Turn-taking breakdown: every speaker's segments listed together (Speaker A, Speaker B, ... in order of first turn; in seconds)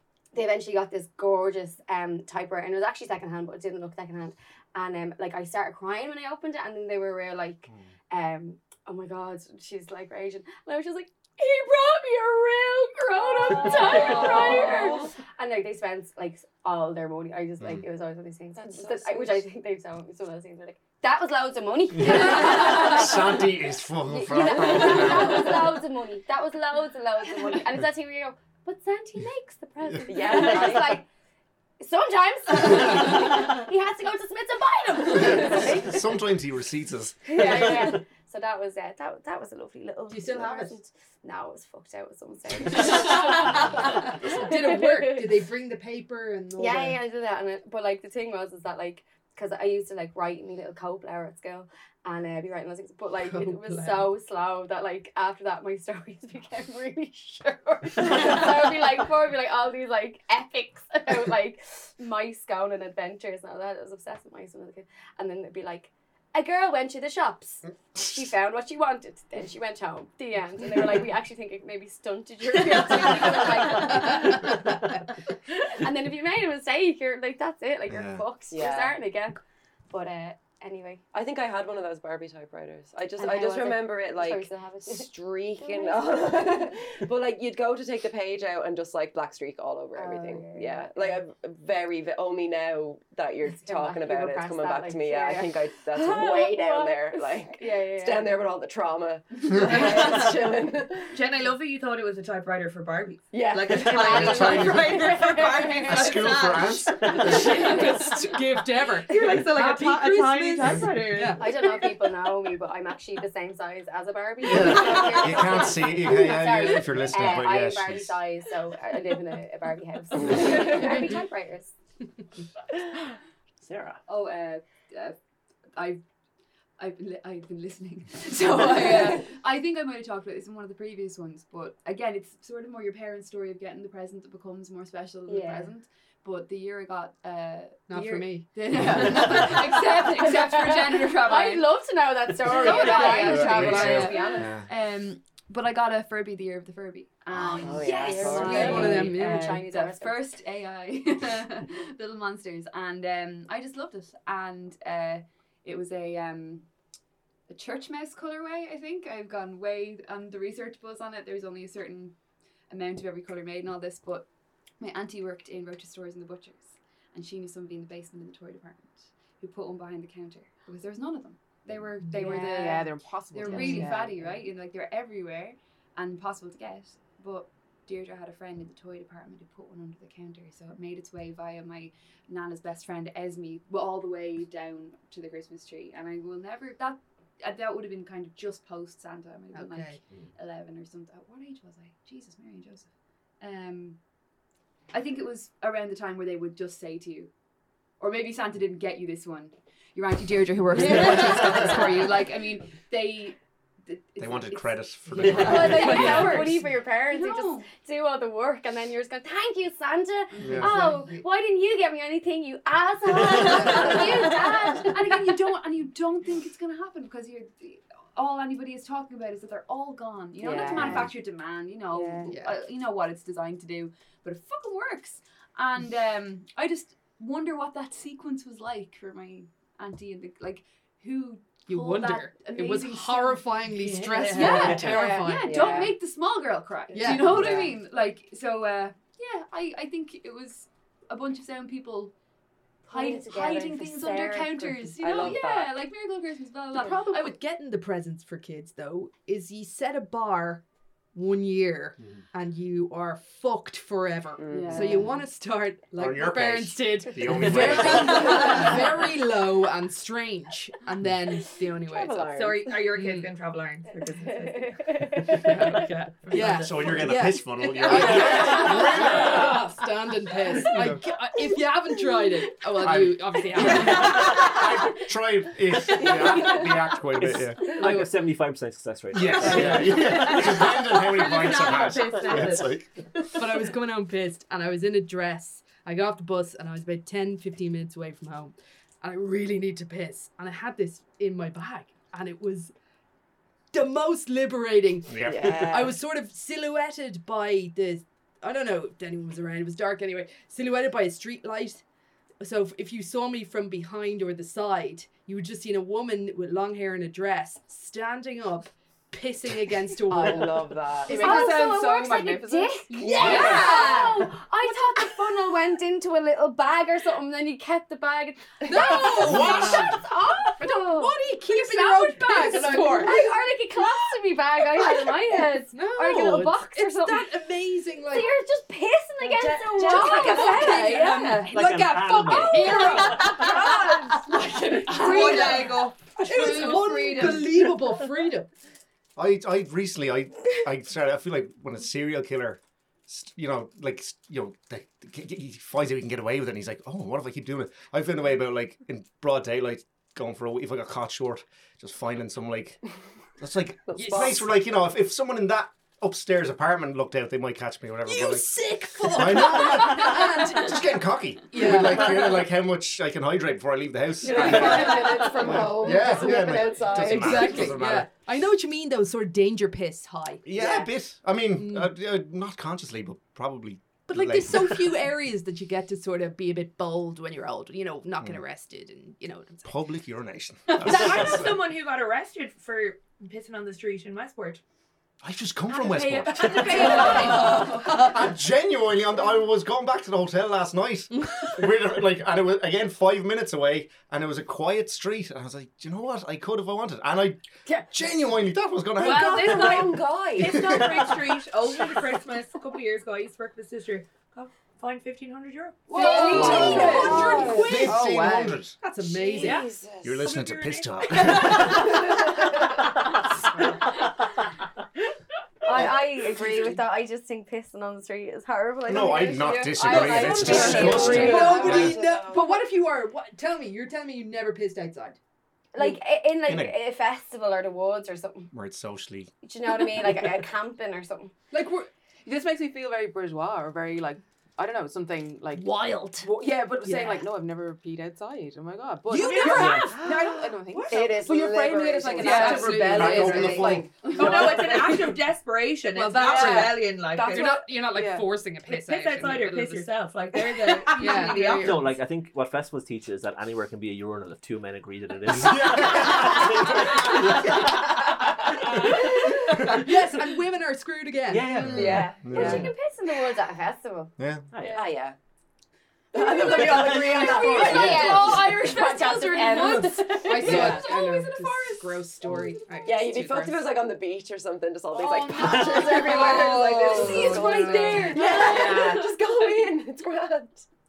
Speaker A: 0.3-23.5, 24.0-31.1, 31.8-36.1, 37.3-45.3, 46.6-74.6, 75.6-81.0, 83.2-86.6, 90.0-91.2, 93.6-98.3, 103.9-105.8, 111.4-121.7, 135.3-135.7, 140.2-144.5, 147.8-150.3, 205.3-215.2, 220.4-221.1, 221.9-222.3, 234.6-236.0, 242.9-245.4, 264.2-265.8, 311.1-321.2, 322.4-327.3, 328.1-331.4, 332.4-333.4, 405.9-407.7, 415.6-421.9, 425.7-428.5, 429.4-431.3, 462.2-464.1, 467.1-470.7
Speaker B: 13.4-15.1, 124.1-125.2, 125.7-126.0, 126.8-141.7, 142.5-156.7, 157.5-194.1, 194.9-197.3, 198.0-207.7, 210.3-211.2, 213.5-242.2, 242.8-247.4, 254.5-255.2, 311.1-311.8, 313.1-314.2, 321.4-323.4, 330.0-337.7, 364.7-365.5, 385.7-388.2, 399.0-400.1, 405.9-407.4, 435.6-436.3, 442.2-442.7, 444.0-444.5, 467.2-472.8, 474.9-479.8
Speaker C: 13.5-14.4, 18.6-19.5, 24.4-25.4, 30.1-31.0, 78.5-79.0, 81.1-101.2, 103.3-104.8, 147.6-149.1, 220.5-220.9, 245.0-245.9, 254.4-255.2, 261.8-262.8, 273.9-274.6, 276.0-276.7, 279.4-280.3, 295.2-296.0, 310.1-311.4, 313.0-314.0, 329.2-331.2, 353.9-354.5, 364.2-367.8, 370.5-370.9, 399.0-401.0, 406.0-408.0, 409.0-410.4, 411.4-412.6, 420.1-422.6, 439.4-444.6, 461.6-462.7, 464.6-465.2, 466.1-468.5, 470.4-470.9, 472.8-480.7
Speaker D: 13.8-15.1, 99.7-100.3, 101.1-108.1, 109.1-111.5, 233.8-234.7, 258.4-258.8, 262.3-264.9, 265.5-267.0, 267.9-268.6, 279.5-283.4, 334.9-337.3, 380.8-384.6, 386.9-387.4, 400.4-406.4, 409.3-412.0, 420.4-421.2, 444.1-447.6, 448.7-451.9, 476.1-477.1, 478.2-478.8
Speaker E: 17.6-17.9, 22.0-25.7, 35.1-37.9, 77.9-78.2, 103.9-105.0, 105.9-107.7, 114.4-118.2, 120.2-120.6, 138.7-139.6, 142.7-144.7, 147.3-147.8, 200.8-201.6, 204.2-206.3, 210.4-210.7, 256.0-258.6, 266.5-269.6, 270.6-271.1, 272.8-277.6, 279.1-283.0, 295.1-295.6, 319.2-320.0, 339.2-352.8, 353.4-368.1, 370.4-375.0, 379.6-381.6, 385.2-399.8, 400.4-401.2, 406.3-408.8, 410.0-412.0, 418.9-422.0, 426.4-426.8, 428.5-429.3, 442.4-444.0, 455.3-457.5, 461.7-462.7, 464.2-464.5
Speaker F: 40.1-40.7, 42.9-47.0, 53.3-54.1, 73.7-75.0, 107.1-111.4, 120.5-121.2, 137.9-139.4, 148.4-149.6, 173.5-173.9, 189.5-190.0, 206.1-206.5, 222.3-222.6, 231.7-235.9, 236.9-237.7, 246.8-262.3, 262.9-263.3, 265.4-274.6, 277.8-278.1, 279.5-279.8, 283.3-292.7, 293.7-301.8, 302.4-314.8, 318.6-320.0, 320.6-323.4, 324.8-328.3, 329.8-338.5, 354.0-354.4, 358.1-362.5, 364.3-370.4, 371.6-371.9, 374.1-379.7, 380.8-381.5, 386.7-388.2, 391.2-391.5, 405.9-409.7, 411.5-412.2, 419.9-425.2, 431.5-431.9, 436.8-437.2, 439.1-441.2, 442.0-443.9, 445.9-449.9, 450.6-451.7, 458.6-462.6, 467.4-467.9, 469.5-473.6, 476.4-476.7
Speaker G: 123.6-124.0, 277.2-280.3, 331.5-333.5, 439.5-439.9, 451.3-457.7, 461.3-462.1, 464.5-464.9, 466.6-467.0, 467.7-468.2, 475.3-476.0
Speaker H: 172.0-174.4, 406.5-408.6, 432.2-445.0, 446.2-448.4, 450.8-452.0